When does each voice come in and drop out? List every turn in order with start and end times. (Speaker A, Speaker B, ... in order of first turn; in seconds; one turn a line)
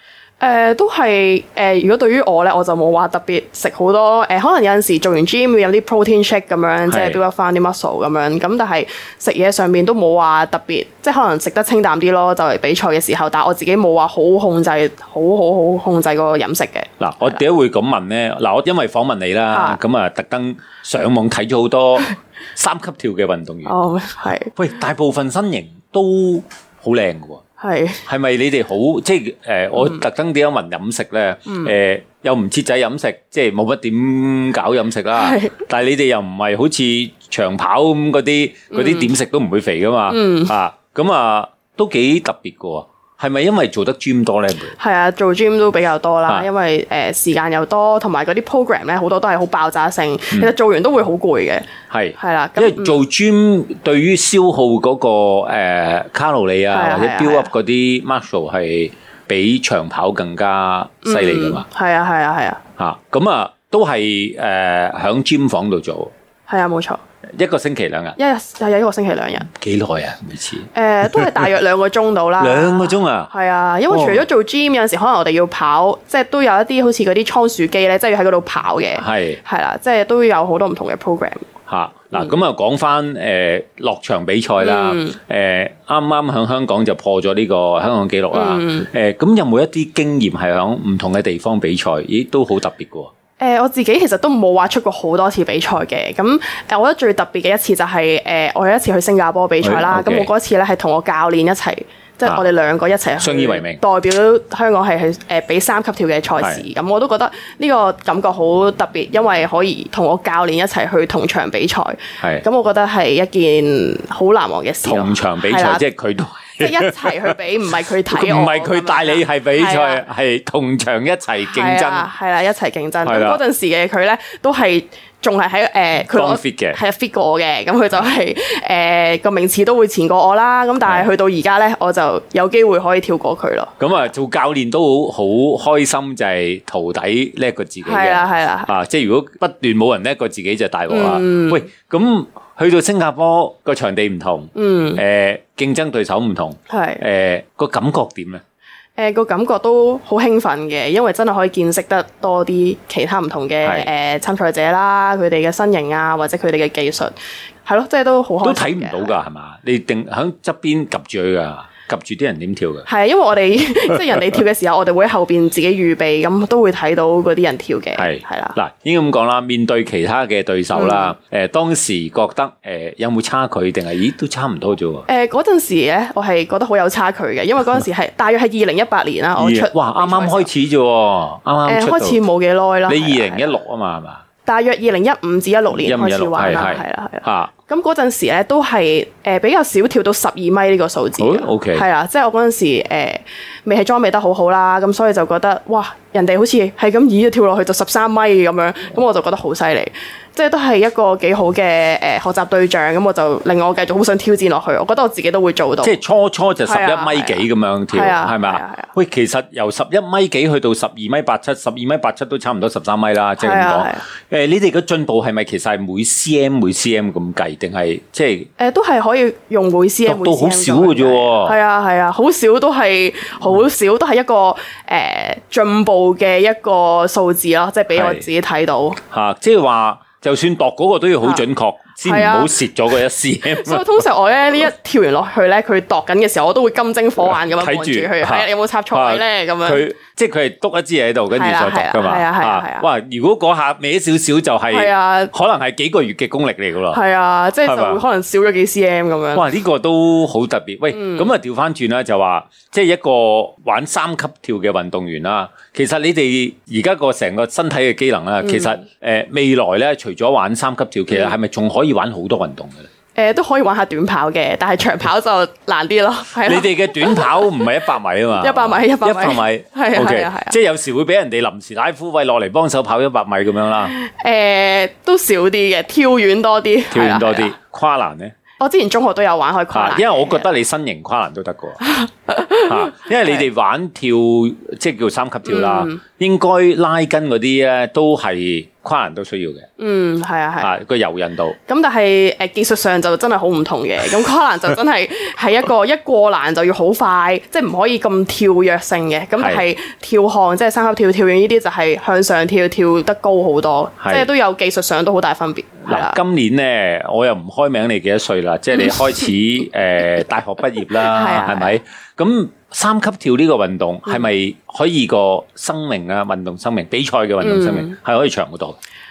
Speaker A: 0.4-17.4
Speaker B: 6.9-7.2
Speaker B: 17.0-23.7
Speaker A: 19.5-19.8
Speaker A: 23.6-24.5
Speaker B: 24.5-27.4
Speaker A: 27.6-28.0
Speaker B: 28.0-44.7
Speaker A: 29.8-30.0
Speaker A: 31.5-31.7
Speaker A: 35.1-35.5
Speaker A: 38.7-39.1
Speaker A: 40.1-40.5
Speaker A: 44.7-51.6
Speaker B: 51.9-61.6
Speaker A: 52.2-53.0
Speaker A: 56.7-57.5
Speaker A: 61.0-62.6
Speaker B: 62.8-66.1
Speaker A: 66.5-67.0
Speaker B: 67.3-68.2
Speaker A: 68.2-69.5
Speaker B: 69.5-71.3
Speaker A: 70.7-81.5
Speaker B: 72.4-73.3
Speaker B: 73.9-74.2
Speaker B: 78.9-79.4
Speaker B: 81.7-93.1
Speaker A: 84.6-85.2
Speaker A: 88.3-88.9
Speaker A: 93.4-115.8
Speaker B: 99.6-100.3
Speaker B: 103.2-103.8
Speaker B: 112.2-112.4
Speaker B: 114.8-117.3
Speaker A: 116.5-120.0
Speaker B: 118.1-122.1
Speaker A: 121.5-133.7
Speaker B: 123.0-123.4
Speaker B: 126.1-126.8
Speaker B: 130.8-131.1
Speaker B: 133.8-148.4
Speaker A: 137.8-138.7
Speaker A: 140.9-141.7
Speaker A: 144.5-145.0
Speaker A: 146.7-147.0
Speaker A: 149.0-157.1
Speaker A: 157.6-159.1
Speaker B: 158.4-162.8
Speaker A: 162.9-168.6
Speaker B: 167.9-175.1
Speaker A: 170.7-171.1
Speaker A: 175.1-180.5
Speaker B: 179.4-182.2
Speaker A: 181.6-183.5
Speaker B: 182.9-184.2
Speaker A: 184.4-205.9
Speaker B: 185.8-187.5
Speaker B: 191.2-191.8
Speaker B: 205.8-218.5
Speaker A: 206.6-208.9
Speaker A: 213.4-214.0
Speaker A: 218.6-229.0
Speaker B: 220.1-221.6
Speaker B: 227.9-228.2
Speaker B: 229.1-234.0
Speaker A: 232.0-232.6
Speaker A: 233.5-239.8
Speaker B: 237.4-247.0
Speaker A: 241.3-242.8
Speaker A: 244.7-245.3
Speaker A: 246.9-249.4
Speaker B: 247.6-248.0
Speaker B: 249.3-262.9
Speaker A: 250.9-251.3
Speaker A: 258.4-258.8
Speaker A: 263.1-267.7
Speaker B: 266.4-273.9
Speaker A: 268.3-270.5
Speaker A: 273.9-277.5
Speaker B: 276.9-278.3
Speaker A: 278.6-280.5
Speaker B: 279.7-281.9
Speaker A: 281.8-283.4
Speaker B: 282.6-289.7
Speaker A: 285.4-286.0
Speaker A: 289.8-290.7
Speaker B: 290.6-291.6
Speaker A: 291.7-306.2
Speaker B: 299.4-299.6
Speaker B: 304.0-304.3
Speaker B: 305.9-318.8
Speaker A: 311.0-311.8
Speaker A: 317.4-317.9